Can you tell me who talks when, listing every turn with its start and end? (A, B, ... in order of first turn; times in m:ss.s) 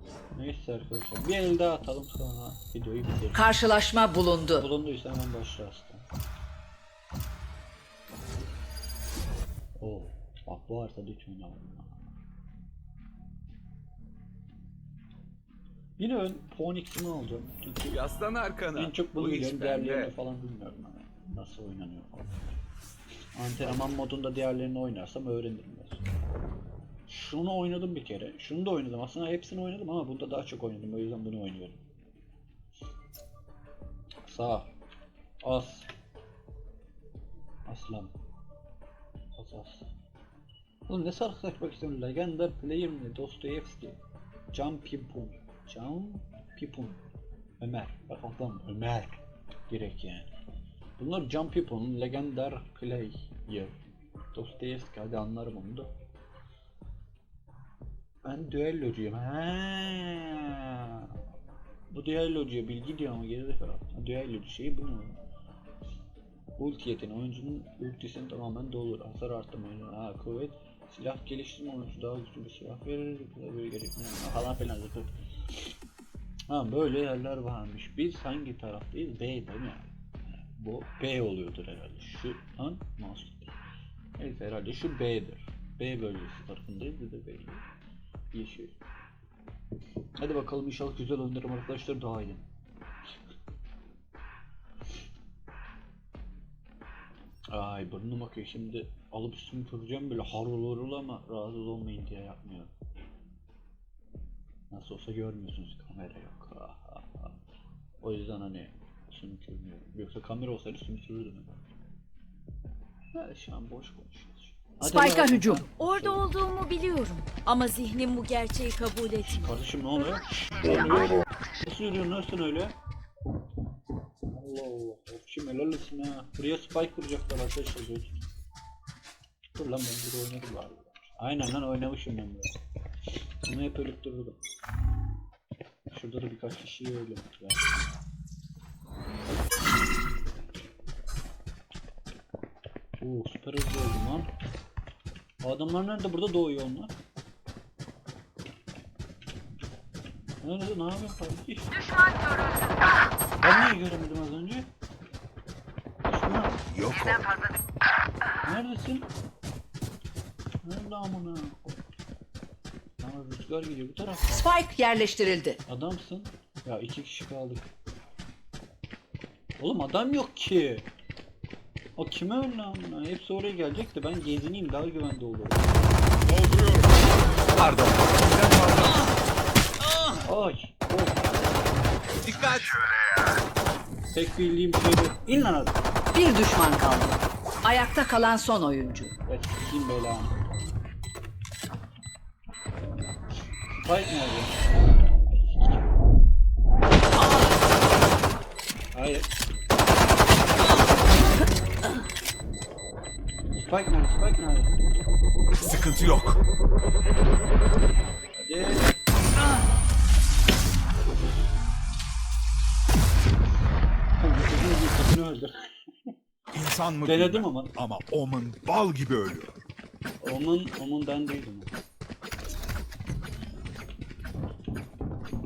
0:00.4-0:03.6 A
0:03.3-0:04.7 B
0:04.6-0:06.0 A
0:09.8-0:11.9 A
0:16.0-0:18.0 A
0:17.9-0:20.1 C
0:18.7-0:22.6 A
0:23.4-0:26.0 A
0:27.1-0:31.8 A
0:34.3-0:34.7 A
0:35.4-0:35.9 A
0:37.7-0:38.1 A
0:39.4-0:39.9 A
0:40.9-0:44.0 A
0:44.5-0:47.0 A
0:47.6-0:49.2 A
0:49.7-0:50.3 A
0:51.0-0:53.8 A
0:54.3-0:55.9 A
0:58.2-1:01.1 A
1:01.9-1:05.2 A
1:06.6-1:15.1 A
1:16.5-1:23.5 A
1:24.2-1:27.6 A
1:28.3-1:28.8 A
1:30.2-1:32.4 A
1:37.5-1:42.7 A
1:44.7-1:47.4 A
1:48.0-1:51.6 A
1:53.1-1:56.2 A
1:54.8-1:55.7 B
1:55.6-1:59.5 D
1:59.2-2:02.8 A
2:04.3-2:08.3 A
2:09.6-2:12.5 A
2:13.4-2:14.4 A
2:15.9-2:17.8 A
2:23.0-2:24.3 A
2:25.4-2:26.9 A
2:30.4-2:31.7 A
2:33.4-2:34.7 A
2:36.0-2:36.6 A
2:36.7-2:37.4 E
2:38.4-2:39.1 A
2:40.6-2:41.8 A
2:43.0-2:44.4 A
2:44.3-2:45.6 B
2:45.7-2:47.7 A
2:49.6-2:50.9 A
2:52.0-2:55.7 A
2:56.2-2:57.0 E
2:57.5-2:59.2 C
2:59.8-3:00.2 C
3:00.2-3:01.4 A
3:02.2-3:02.8 C
3:04.1-3:05.9 A
3:06.1-3:09.1 B
3:09.3-3:10.4 A
3:13.8-3:15.9 A
3:18.9-3:19.3 A
3:23.6-3:24.8 A
3:25.6-3:26.4 E
3:28.4-3:29.0 A
3:34.2-3:36.1 A
3:36.5-3:39.6 E
3:37.0-3:37.7 A
3:40.2-3:41.7 A